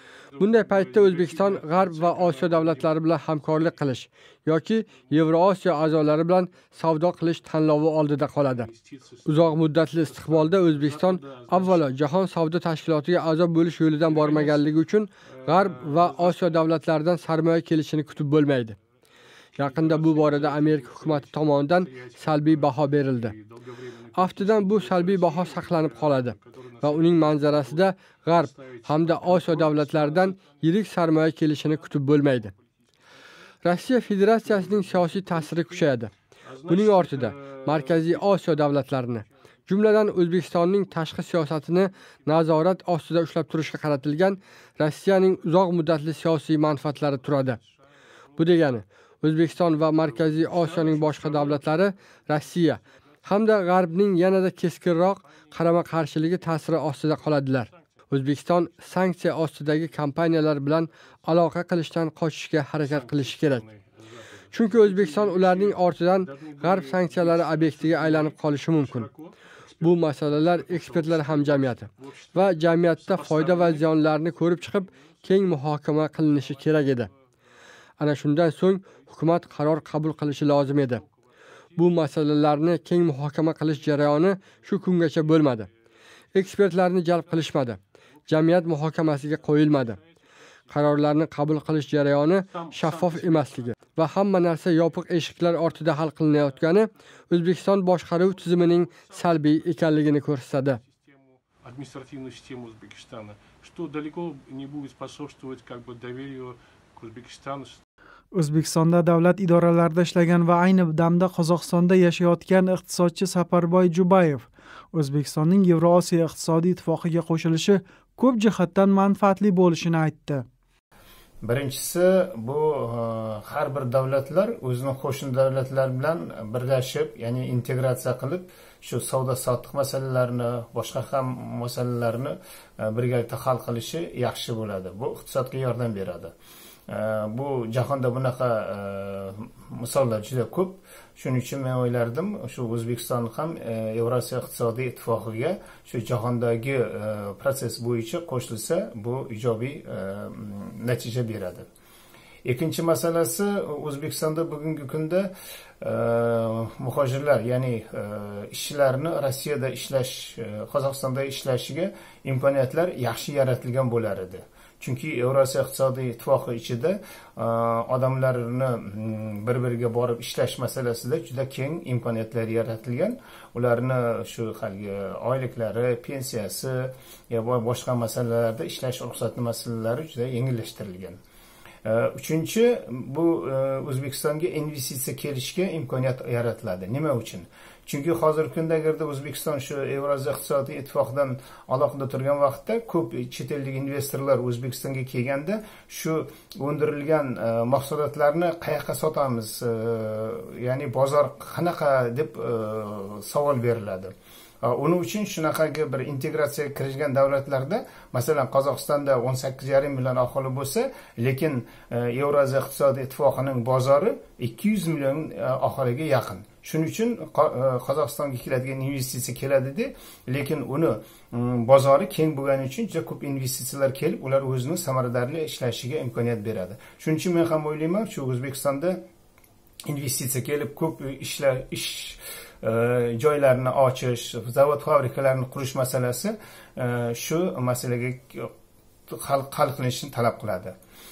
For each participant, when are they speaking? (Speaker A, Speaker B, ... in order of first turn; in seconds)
Speaker A: 0.3-3.0, 8.4-12.0, 14.0-14.7, 15.2-16.6, 19.6-32.5, 34.4-35.9, 36.4-38.9, 46.9-47.8, 49.7-52.8, 54.7-57.6, 62.8-74.8, 76.2-77.1, 78.9-80.0, 80.6-81.1, 81.8-82.3, 85.2-85.6, 88.6-90.1, 92.5-93.9, 98.2-99.8, 101.6-107.8
Speaker B: 0.4-8.7, 9.2-18.8, 19.6-23.3, 24.1-32.5, 33.6-36.1, 36.7-47.6, 48.4-63.6, 64.5-69.1, 69.8-77.1, 78.0-81.0, 81.8-85.7, 86.3-90.0, 90.7-100.8
Speaker C: 108.3-120.4
Speaker D: 121.4-136.3, 136.9-151.6, 152.4-181.2, 181.8-229.0, 229.9-238.5, 239.1-240.8